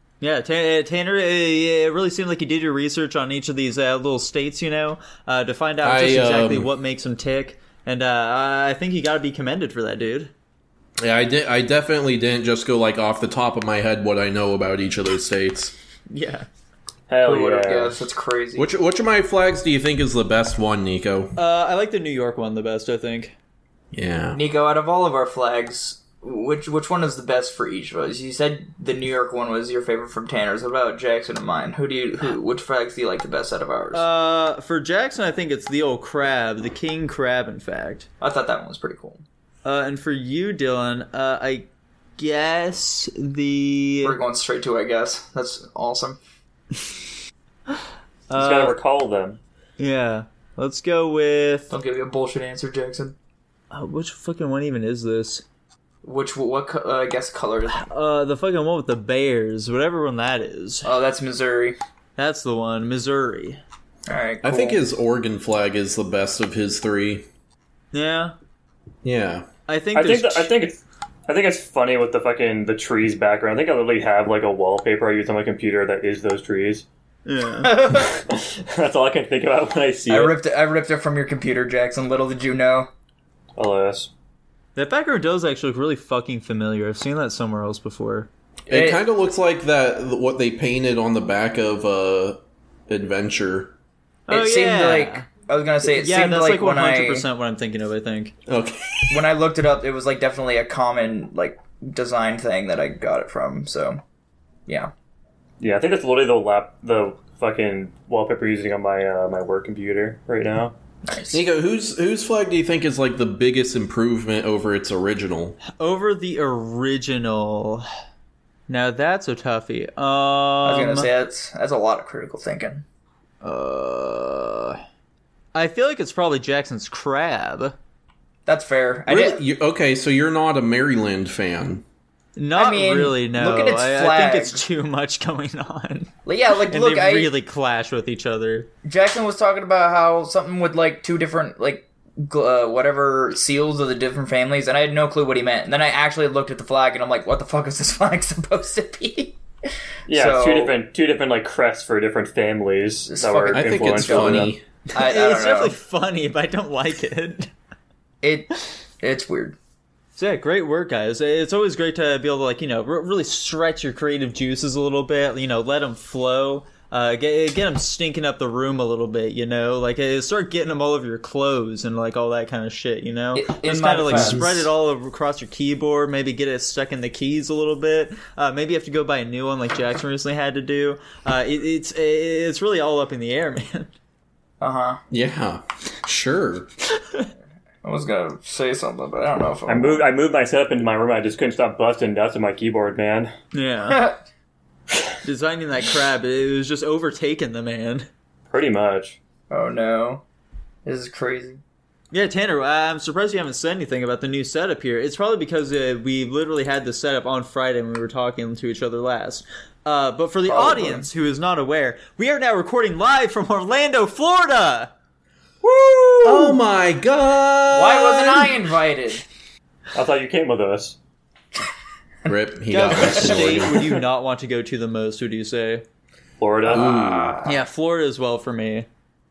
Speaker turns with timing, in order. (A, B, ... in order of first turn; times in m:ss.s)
0:00.2-0:10.3 A
0:05.8-0:06.7 B
0:11.0-0:15.7 B
0:16.1-0:16.5 A
0:17.1-0:18.0 C
0:17.2-0:18.7 D
0:18.6-0:21.3 B
0:21.4-0:23.3 A
0:23.9-0:24.4 B
0:24.3-0:34.0 D
0:33.9-0:38.1 A
0:38.2-0:39.2 D
0:39.6-0:41.7 A
0:42.2-0:44.2 A
0:44.0-0:46.2 D
0:48.3-0:48.7 A
0:48.4-0:49.4 C
0:49.8-0:51.7 A
0:51.7-0:53.1 D
0:53.7-0:55.4 A
0:56.0-0:57.9 D
0:57.7-1:00.9 A
1:00.8-1:01.8 D
1:02.2-1:03.6 A
1:04.1-1:04.8 D
1:04.4-1:07.3 B
1:07.9-1:08.3 A
1:09.0-1:09.5 B
1:09.7-1:10.5 A
1:09.9-1:16.8 C
1:17.2-1:18.0 A
1:17.6-1:18.2 D
1:18.3-1:20.3 C
1:20.1-1:22.9 D
1:23.6-1:24.1 C
1:24.7-1:28.3 A
1:28.7-1:33.7 B
1:28.7-1:29.0 D
1:34.3-1:35.2 A
1:34.3-1:37.2 D
1:35.8-1:38.3 A
1:38.5-1:39.2 B
1:39.1-1:44.0 D
1:44.7-1:44.9 D
1:45.6-1:50.7 C
1:51.0-1:51.4 D
1:51.3-1:55.6 B
1:55.7-1:57.8 A
1:58.7-2:01.1 A
2:00.6-2:02.8 D
2:03.4-2:04.6 A
2:03.4-2:04.4 B
2:05.5-2:07.7 A
2:08.4-2:09.4 D
2:09.1-2:11.8 B
2:12.4-2:18.7 A
2:12.6-2:14.6 D
2:16.2-2:17.3 D
2:18.8-2:29.4 D
2:30.1-2:30.7 D
2:30.1-2:34.5 C
2:33.1-2:35.7 D
2:33.5-2:34.6 B
2:34.9-2:37.5 A
2:38.2-2:39.6 D
2:40.2-3:03.9 A
2:53.3-2:54.7 D
2:54.1-2:54.4 B
3:04.6-3:05.0 D
3:05.1-3:06.7 B
3:07.8-3:10.0 D
3:09.7-3:13.3 C
3:13.5-3:14.0 A
3:13.9-3:14.2 D
3:15.2-3:18.1 A
3:18.5-3:19.2 C
3:19.5-3:20.2 D
3:20.8-3:21.6 D
3:22.1-3:34.9 A
3:30.5-3:31.1 D
3:35.6-3:38.5 B
3:36.3-3:36.5 D
3:37.7-3:39.2 D
3:39.9-3:41.0 C
3:42.2-3:43.7 B
3:42.3-3:43.6 D
3:42.7-3:45.8 A
3:43.6-3:44.0 C
3:46.4-3:46.9 C
3:46.7-3:47.6 D
3:46.7-3:47.4 B
3:47.4-3:48.9 A